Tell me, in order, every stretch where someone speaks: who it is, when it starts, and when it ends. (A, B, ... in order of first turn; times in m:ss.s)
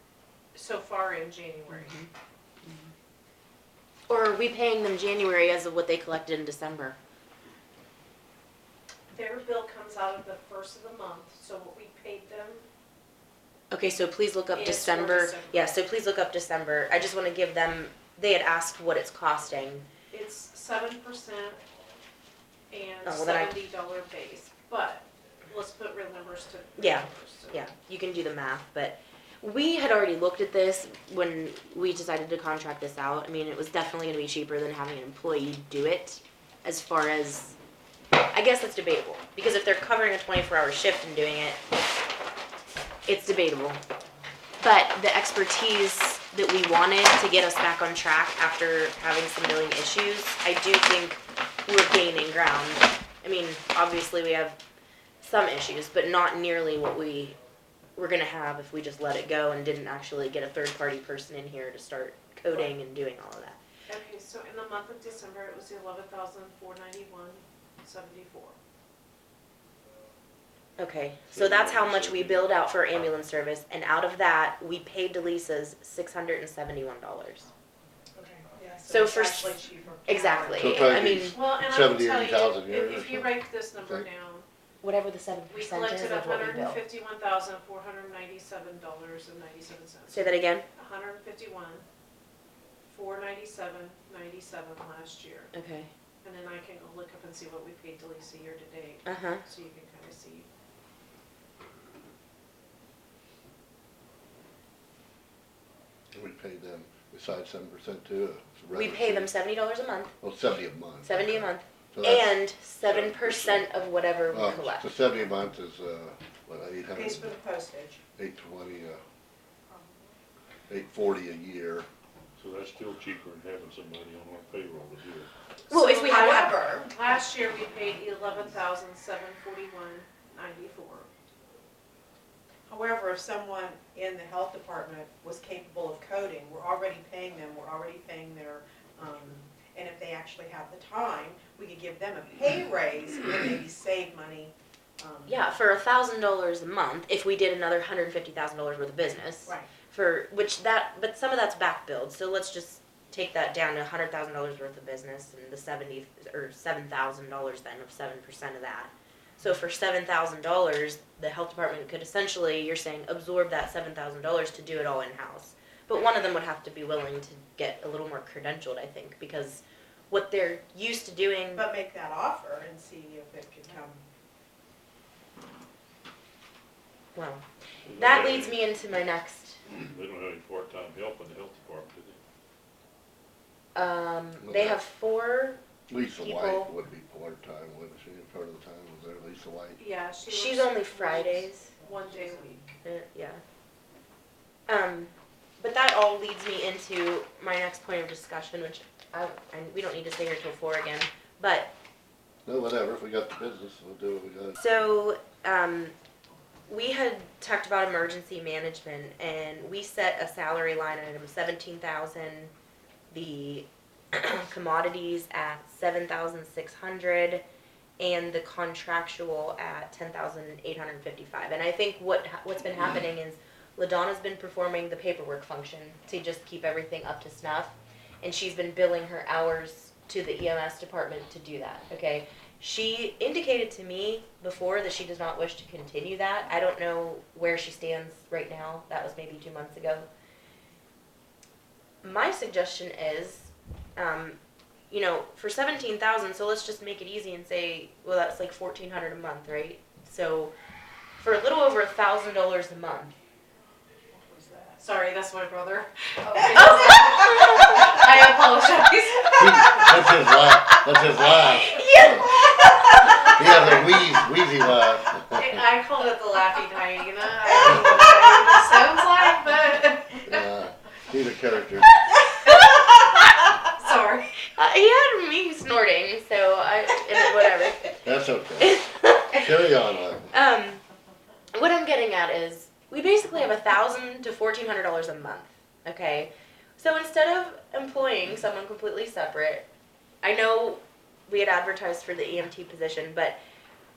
0:00.5-0:02.0 A
0:01.7-0:02.1 B
0:04.1-0:07.0 B
0:09.1-0:12.7 A
0:13.7-0:19.9 B
0:14.5-0:15.8 A
0:20.1-0:21.6 A
0:22.7-0:27.7 A
0:23.0-0:23.6 B
0:26.8-0:37.6 B
0:38.3-0:41.6 B
0:43.1-0:43.8 B
0:44.6-0:54.6 B
0:55.2-0:57.4 B
0:58.0-1:03.6 B
1:03.9-1:08.6 A
1:10.8-1:17.4 B
1:11.3-1:12.5 C
1:18.2-1:20.9 D
1:18.9-1:21.4 B
1:20.6-1:24.1 E
1:21.3-1:24.5 A
1:24.8-1:26.8 B
1:25.5-1:31.8 A
1:30.1-1:30.6 B
1:32.9-1:35.5 A
1:35.5-1:35.9 B
1:36.2-1:40.5 A
1:39.0-1:39.4 B
1:46.1-1:49.3 E
1:48.7-1:50.1 B
1:50.2-1:52.4 E
1:51.0-1:54.9 B
1:52.8-1:53.6 C
1:54.3-1:57.3 E
1:56.9-1:58.0 D
1:58.2-1:59.0 E
2:00.7-2:01.9 E
2:02.4-2:05.3 C
2:05.7-2:06.6 B
2:05.7-2:06.9 D
2:06.1-2:11.1 A
2:12.7-2:25.4 D
2:25.3-2:51.6 B
2:51.6-2:54.0 D
2:57.2-2:57.4 B
2:57.9-2:58.6 C
2:58.0-2:59.6 B
2:59.8-3:02.2 C
3:03.8-3:05.6 B
3:04.4-3:04.8 E
3:05.9-3:09.8 E
3:06.2-3:06.7 B
3:09.8-3:12.6 A
3:10.3-3:11.7 B
3:12.8-3:13.4 B
3:14.7-3:21.8 B
3:22.4-3:24.6 E
3:24.6-3:25.9 B
3:26.7-3:32.5 B
3:33.1-3:37.4 B
3:38.0-4:00.1 B
4:02.0-4:04.4 B
4:04.9-4:10.6 B
4:11.2-4:13.1 B
4:14.2-4:14.8 D
4:14.8-4:20.4 A
4:16.3-4:16.6 D
4:16.9-4:17.7 B
4:19.4-4:22.2 E
4:21.5-4:23.8 A
4:21.7-4:23.1 B
4:23.2-4:25.6 E
4:25.3-4:30.4 A
4:30.3-4:32.0 E
4:32.5-4:33.5 B
4:32.5-4:32.9 A
4:33.6-4:34.3 A
4:34.4-4:38.0 B
4:38.0-4:38.8 E
4:38.6-4:39.5 B
4:39.3-4:40.3 E
4:40.3-4:40.8 B
4:41.5-4:49.7 B
4:50.2-4:53.4 B